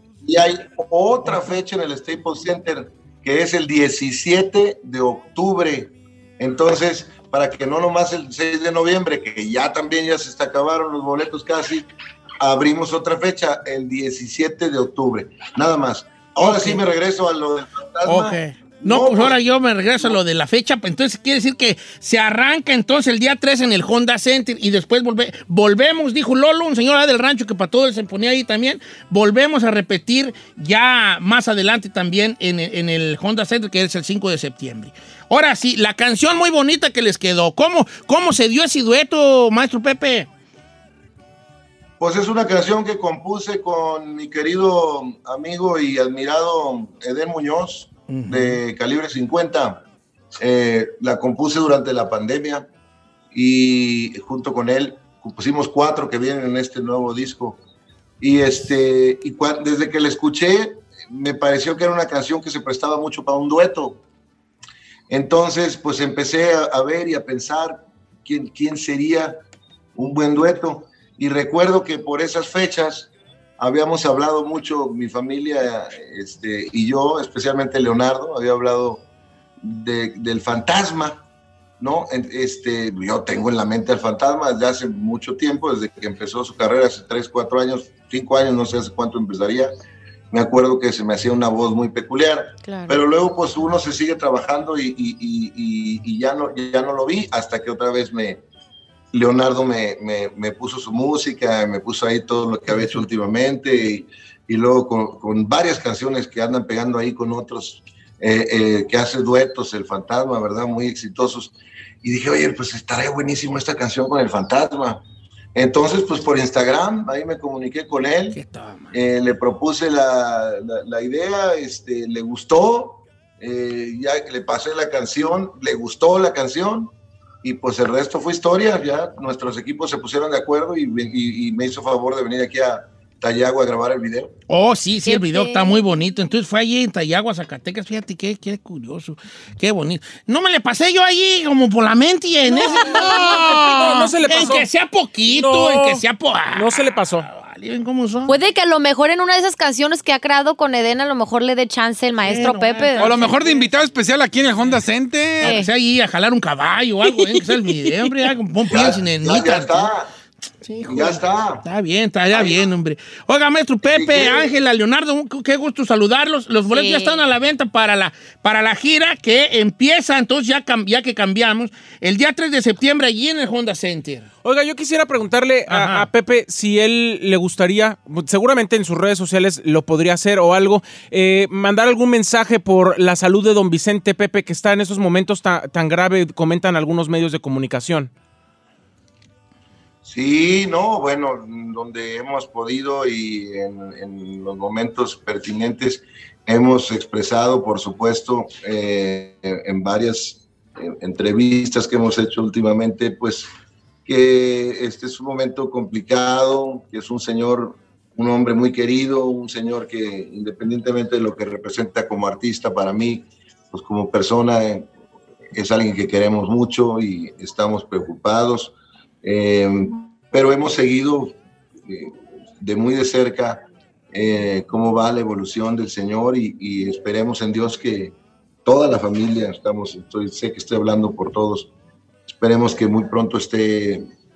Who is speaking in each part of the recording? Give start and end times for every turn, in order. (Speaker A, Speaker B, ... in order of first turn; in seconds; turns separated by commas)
Speaker A: 0.2-11.9, Speaker A: 12.4-19.4, Speaker B: 16.4-16.8, Speaker B: 18.1-40.3, Speaker A: 42.0-49.8, Speaker B: 48.1-48.6, Speaker A: 50.4-52.7, Speaker A: 53.3-57.6, Speaker A: 58.2-64.0, Speaker A: 65.1-69.4, Speaker A: 70.0-79.0, Speaker A: 79.6-81.2, Speaker A: 81.8-89.7, Speaker A: 90.3-98.4, Speaker C: 92.6-93.0, Speaker A: 99.1-115.0, Speaker A: 115.5-118.4, Speaker B: 118.3-118.9, Speaker A: 118.9-126.9, Speaker A: 127.4-134.3, Speaker B: 134.5-148.3, Speaker C: 135.0-135.8, Speaker D: 142.5-144.7, Speaker C: 142.7-143.4, Speaker D: 145.2-147.3, Speaker C: 148.3-153.1, Speaker B: 152.2-153.7, Speaker E: 153.0-155.6, Speaker B: 155.4-159.9, Speaker C: 155.4-155.7, Speaker A: 158.7-160.1, Speaker B: 160.6-174.2, Speaker A: 160.9-161.6, Speaker A: 162.3-162.7, Speaker A: 163.9-164.5, Speaker C: 166.7-167.2, Speaker D: 174.4-188.1, Speaker B: 175.7-176.1, Speaker A: 190.0-203.5, Speaker A: 204.1-214.9, Speaker A: 215.5-231.7, Speaker A: 232.3-234.0